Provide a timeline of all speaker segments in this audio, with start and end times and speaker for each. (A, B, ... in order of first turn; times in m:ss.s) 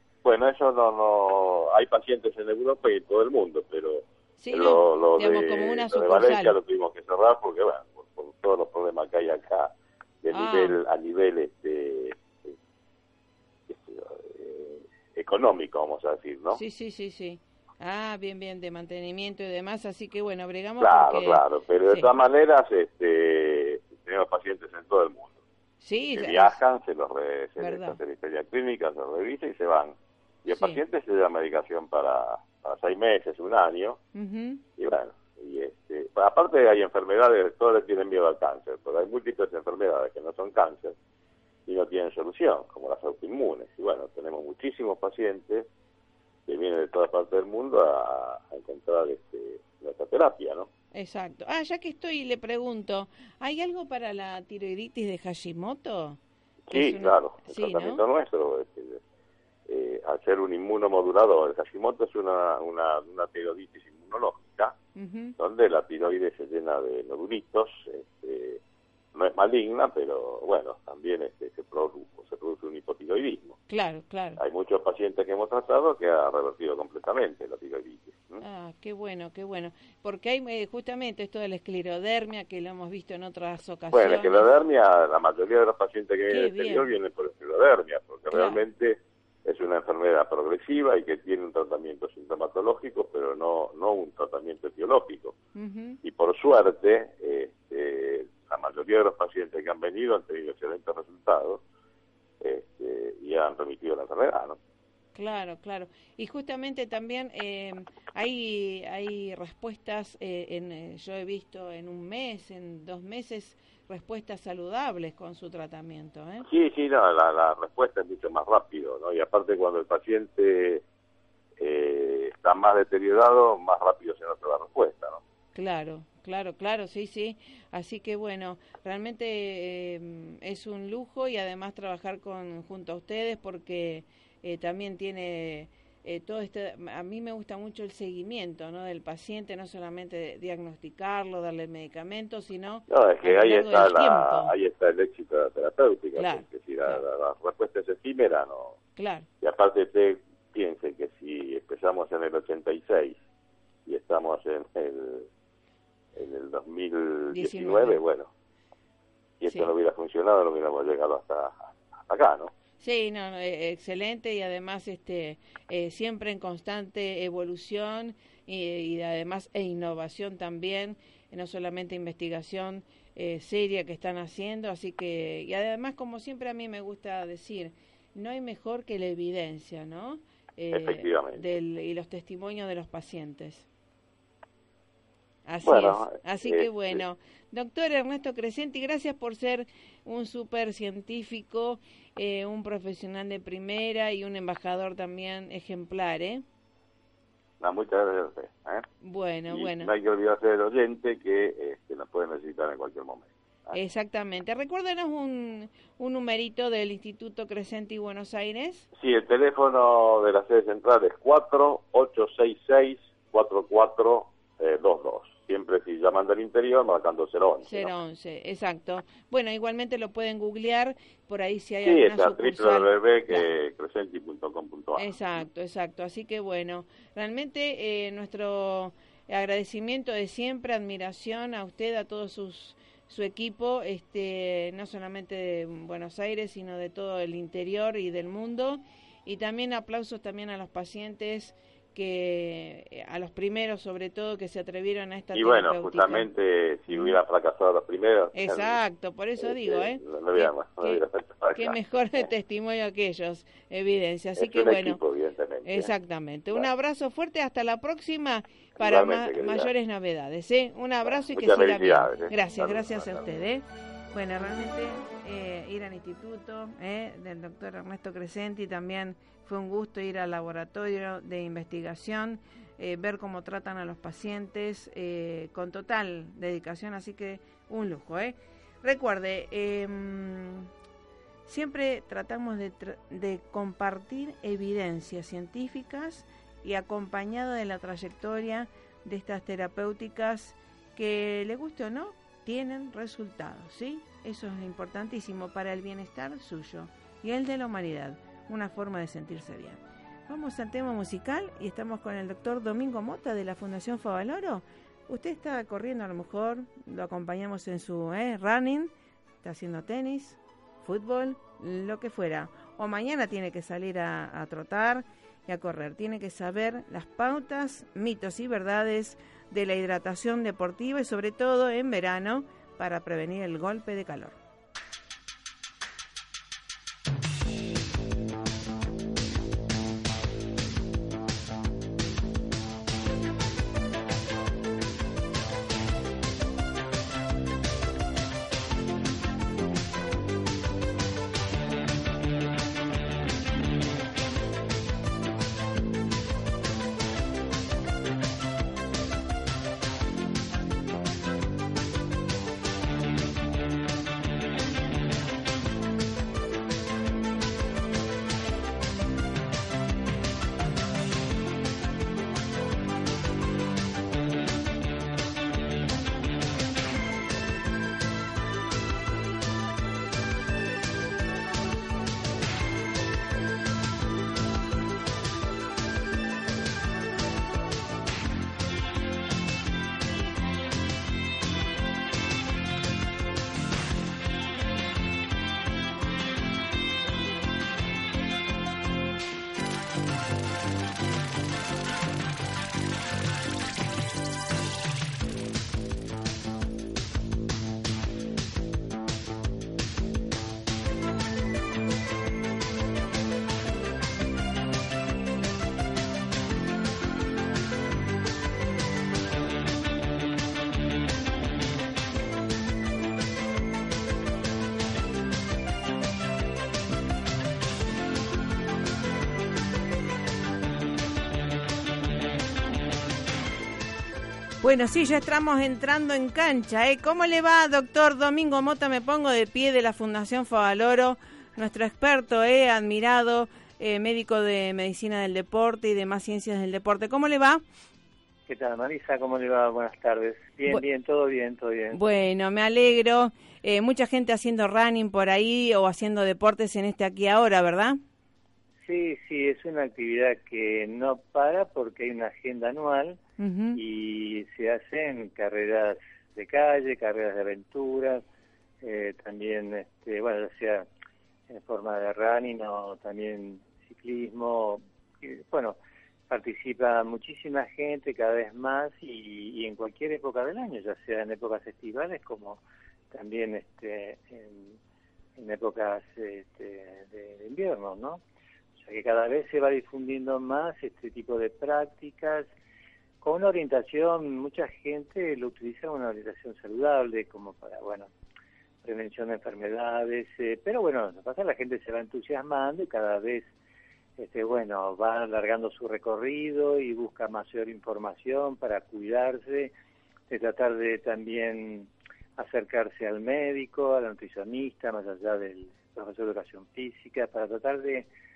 0:00.2-0:12.6 A
0:04.4-0:06.6 B
0:10.3-0:10.8 B
0:13.7-0:16.6 A
0:16.5-0:22.1 B
0:20.8-0:25.4 A
0:25.8-0:26.6 B
0:26.2-0:34.0 A
0:27.6-0:28.0 B
0:30.5-0:30.8 B
0:34.1-0:34.6 B
0:34.8-0:41.0 A
0:41.7-0:45.7 A
0:46.5-0:50.7 A
0:50.9-0:56.2 B
0:56.7-0:59.0 A
0:56.7-0:58.0 B
0:59.7-1:04.8 A
1:05.0-1:05.4 B
1:05.4-1:08.6 A
1:09.1-1:13.6 A
1:13.7-1:14.4 B
1:14.4-1:18.4 A
1:18.4-1:24.5 B
1:23.9-1:35.4 A
1:26.3-1:26.9 B
1:28.3-1:28.6 B
1:35.6-1:36.0 B
1:36.0-1:41.6 A
1:42.4-1:44.6 A
1:45.2-1:56.5 B
1:56.4-2:00.8 A
2:01.6-2:05.2 A
2:05.6-2:24.5 B
2:22.9-2:28.8 A
2:26.2-2:27.0 B
2:29.0-2:29.3 B
2:29.4-2:33.2 A
2:33.9-2:35.3 A
2:36.2-2:38.3 A
2:37.3-2:38.0 B
2:39.4-2:42.5 A
2:39.5-2:39.7 B
2:42.8-3:03.7 B
3:00.7-3:01.4 A
3:05.5-3:16.4 B
3:05.6-3:07.0 A
3:17.6-3:18.8 A
3:19.0-3:19.9 B
3:19.5-3:23.8 A
3:23.7-3:28.9 B
3:28.9-3:37.9 A
3:37.6-3:43.4 B
3:41.8-3:45.4 A
3:45.0-4:06.3 B
4:05.3-4:08.8 A
4:06.9-4:07.2 B
4:08.3-4:15.0 B
4:09.4-4:11.8 A
4:14.4-4:15.9 A
4:15.6-4:40.7 B
4:18.8-4:19.7 A
4:21.0-4:23.3 A
4:41.5-5:08.9 B
5:09.4-5:24.4 B
7:04.6-7:17.6 B
7:18.5-7:22.0 C
7:21.9-7:28.0 B
7:28.8-7:33.2 C
7:33.4-7:33.8 B
7:33.7-7:38.2 C
7:38.8-7:40.9 C
7:41.5-7:45.8 C
7:46.3-7:54.8 C
7:55.4-7:58.2 C
7:58.8-8:02.5 C
8:03.2-8:08.1 C
8:08.8-8:13.5 C
8:14.2-8:19.7 C
8:20.3-8:28.1 C